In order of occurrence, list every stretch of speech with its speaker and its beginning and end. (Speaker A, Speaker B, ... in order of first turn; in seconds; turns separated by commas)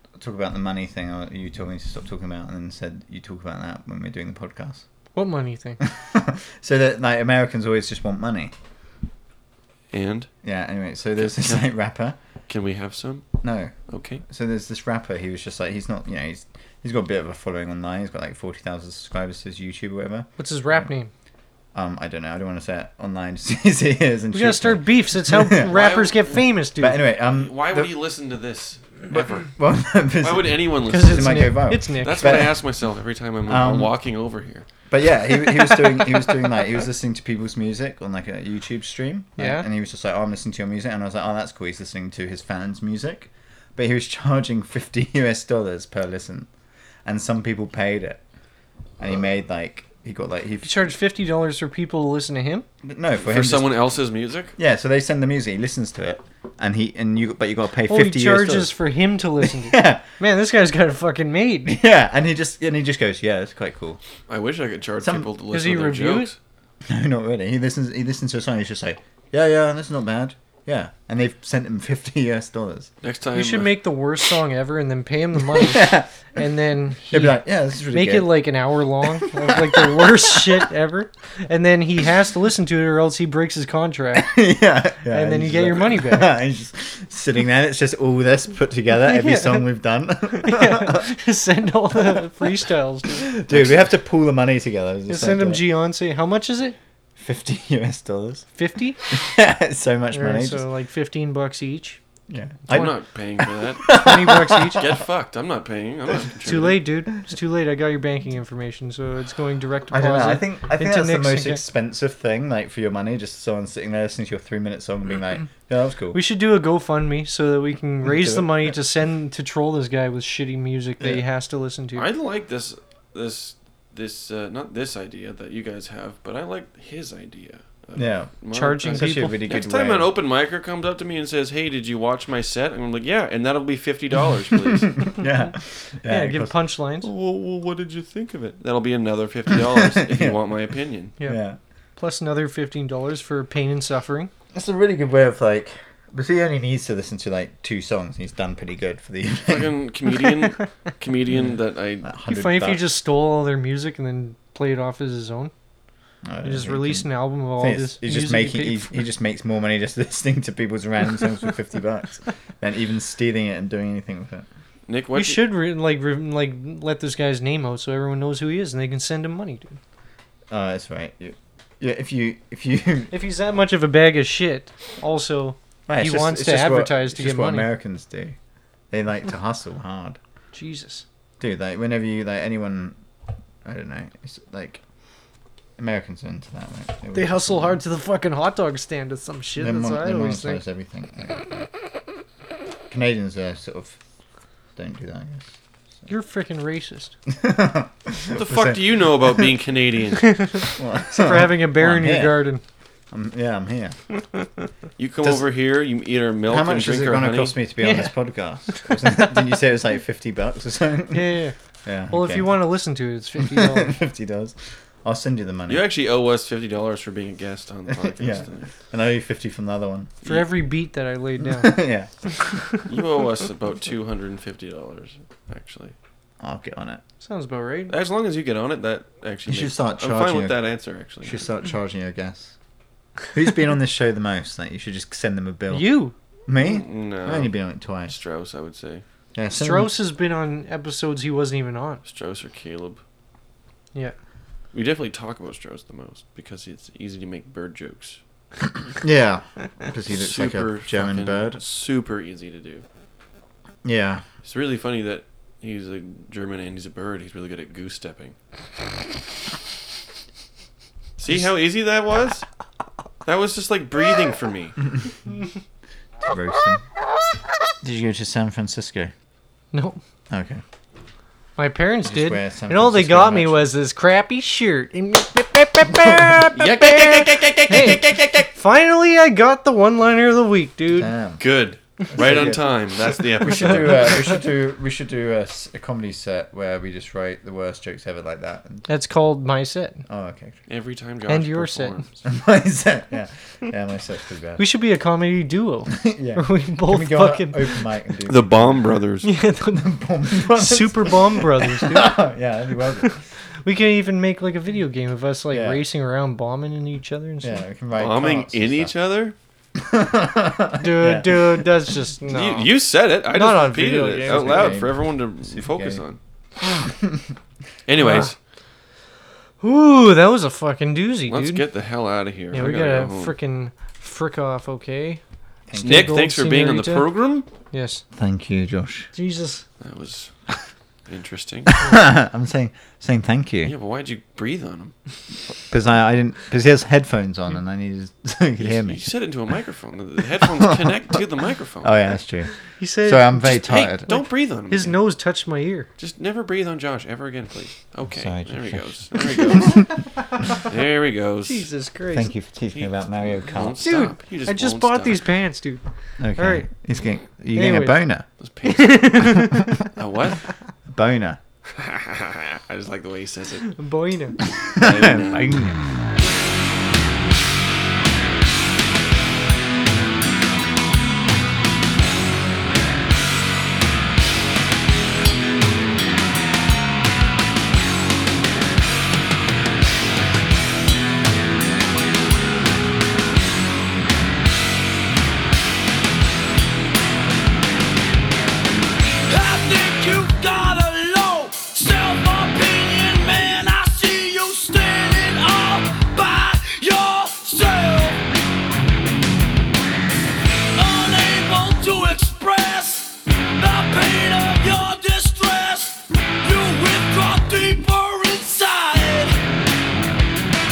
Speaker A: 0.2-4.8, Speaker B: 5.1-5.8, Speaker A: 5.8-8.5, Speaker C: 9.9-10.3, Speaker A: 10.4-12.2, Speaker C: 11.2-11.7, Speaker C: 12.5-13.3, Speaker A: 13.4-13.7, Speaker C: 13.9-14.2, Speaker A: 14.2-20.9, Speaker B: 20.4-21.1, Speaker A: 21.7-25.9, Speaker B: 24.3-27.0, Speaker C: 25.7-26.5, Speaker A: 26.8-27.9, Speaker C: 27.2-29.5, Speaker A: 29.1-32.6, Speaker C: 30.2-34.6, Speaker B: 30.9-32.5, Speaker A: 33.5-33.9, Speaker A: 34.9-46.5, Speaker B: 39.4-39.6, Speaker A: 47.0-48.2, Speaker A: 49.0-50.9, Speaker B: 50.6-52.6, Speaker A: 52.8-53.7, Speaker C: 53.2-54.5, Speaker A: 54.6-58.8, Speaker B: 57.9-61.7, Speaker A: 59.4-60.0, Speaker A: 61.6-64.0, Speaker C: 64.3-66.3, Speaker A: 65.0-65.3, Speaker B: 65.5-66.3, Speaker A: 66.8-72.9, Speaker C: 73.0-73.8, Speaker B: 73.3-84.4, Speaker A: 75.5-76.1, Speaker A: 77.0-78.4, Speaker A: 79.2-80.7, Speaker A: 84.1-91.1, Speaker B: 85.0-86.3, Speaker B: 89.0-89.7, Speaker B: 90.3-93.2, Speaker A: 92.0-92.2, Speaker A: 93.1-95.7, Speaker B: 95.1-96.8, Speaker A: 97.2-98.5, Speaker B: 98.5-99.0, Speaker A: 99.1-100.7, Speaker B: 100.1-102.0, Speaker A: 102.3-105.0, Speaker C: 102.7-103.9, Speaker B: 103.9-104.9, Speaker C: 104.7-106.8, Speaker B: 106.4-111.6, Speaker A: 109.9-116.2, Speaker B: 116.1-122.1, Speaker A: 118.0-118.8, Speaker C: 122.0-135.1, Speaker A: 127.9-128.3, Speaker B: 128.5-129.4, Speaker A: 128.8-130.1, Speaker A: 134.7-136.6, Speaker B: 136.1-137.1, Speaker C: 137.0-141.1, Speaker A: 139.5-140.4, Speaker A: 141.2-141.6, Speaker B: 142.0-144.3, Speaker A: 144.5-149.8, Speaker C: 149.5-152.1, Speaker A: 151.3-152.8, Speaker B: 152.2-155.5, Speaker A: 156.2-164.4, Speaker B: 156.4-159.1, Speaker C: 164.9-165.5, Speaker B: 165.1-169.8, Speaker A: 170.5-173.1, Speaker B: 173.1-177.7, Speaker A: 175.9-178.4, Speaker A: 178.9-180.2, Speaker B: 180.5-181.0, Speaker A: 181.4-182.9, Speaker A: 183.6-184.8, Speaker A: 185.8-187.8, Speaker B: 187.1-190.6, Speaker A: 189.6-191.5, Speaker A: 192.9-194.0, Speaker A: 194.8-195.5, Speaker B: 196.1-197.1, Speaker A: 197.3-199.5, Speaker C: 198.3-200.5, Speaker B: 200.4-202.6, Speaker A: 200.7-202.5, Speaker A: 203.1-204.0, Speaker C: 205.0-207.6, Speaker A: 206.5-212.7, Speaker B: 207.8-208.1, Speaker B: 208.7-209.2, Speaker B: 211.1-211.5, Speaker B: 212.1-213.9, Speaker A: 213.4-215.9, Speaker C: 215.7-218.7, Speaker A: 217.9-220.1, Speaker C: 220.2-220.5, Speaker B: 220.2-221.8, Speaker A: 221.4-222.1, Speaker C: 222.8-225.9, Speaker A: 226.4-227.0, Speaker B: 227.2-227.9, Speaker C: 227.9-231.5, Speaker A: 229.5-230.6, Speaker A: 231.2-232.5, Speaker A: 233.3-238.2, Speaker B: 235.7-236.1, Speaker C: 236.5-239.0, Speaker A: 239.3-240.0, Speaker B: 239.5-242.0, Speaker C: 242.1-243.0, Speaker C: 244.7-248.2, Speaker A: 249.0-251.6, Speaker C: 250.1-252.8, Speaker A: 253.8-254.2, Speaker C: 254.4-258.3, Speaker C: 261.2-262.4, Speaker C: 263.2-264.8, Speaker A: 266.2-266.8, Speaker A: 267.8-269.1, Speaker B: 269.7-270.0, Speaker A: 270.3-270.6, Speaker B: 271.6-276.8, Speaker A: 272.0-273.7, Speaker A: 275.9-278.5, Speaker C: 276.5-278.3, Speaker B: 277.7-281.1, Speaker A: 280.9-281.4, Speaker C: 281.4-284.2, Speaker A: 282.1-282.7, Speaker A: 283.2-288.9, Speaker B: 288.9-290.0, Speaker A: 290.1-290.6, Speaker C: 290.7-292.2, Speaker B: 291.3-292.0, Speaker A: 292.2-294.6, Speaker B: 294.6-297.8, Speaker A: 295.9-298.9, Speaker C: 298.2-299.3, Speaker B: 299.2-302.2, Speaker A: 299.6-303.2, Speaker B: 303.0-307.6, Speaker A: 305.5-305.8, Speaker A: 307.4-308.9, Speaker C: 307.9-309.3, Speaker A: 309.7-311.7, Speaker B: 310.8-312.7, Speaker C: 312.3-316.2, Speaker B: 313.3-314.8, Speaker A: 314.2-316.0, Speaker A: 316.6-317.3, Speaker C: 317.9-318.3, Speaker B: 318.0-318.3, Speaker B: 319.6-321.6, Speaker C: 321.3-323.4, Speaker B: 322.5-325.2, Speaker A: 325.7-326.2, Speaker B: 325.7-327.1, Speaker C: 325.8-327.4, Speaker B: 327.7-328.0, Speaker A: 328.1-329.1, Speaker B: 329.1-329.6, Speaker C: 329.8-330.5, Speaker C: 331.1-331.7, Speaker A: 331.7-333.7, Speaker C: 333.6-334.9, Speaker A: 335.7-339.0, Speaker C: 338.6-342.2, Speaker A: 340.6-340.9, Speaker A: 341.8-344.2, Speaker B: 342.8-345.9, Speaker C: 343.7-344.9, Speaker C: 346.0-349.9, Speaker A: 348.1-349.8, Speaker C: 350.5-351.7, Speaker B: 351.4-352.3, Speaker A: 352.1-354.0, Speaker C: 352.7-355.2, Speaker B: 353.8-355.8, Speaker A: 356.2-358.3, Speaker B: 356.3-356.7, Speaker B: 357.5-358.0, Speaker C: 358.4-359.4, Speaker B: 358.7-359.8, Speaker A: 359.3-359.7, Speaker C: 359.9-360.4, Speaker A: 360.9-361.4, Speaker C: 361.8-363.8, Speaker B: 363.8-364.4, Speaker C: 364.7-365.6, Speaker A: 364.7-365.8, Speaker D: 389.3-398.2, Speaker D: 400.7-409.4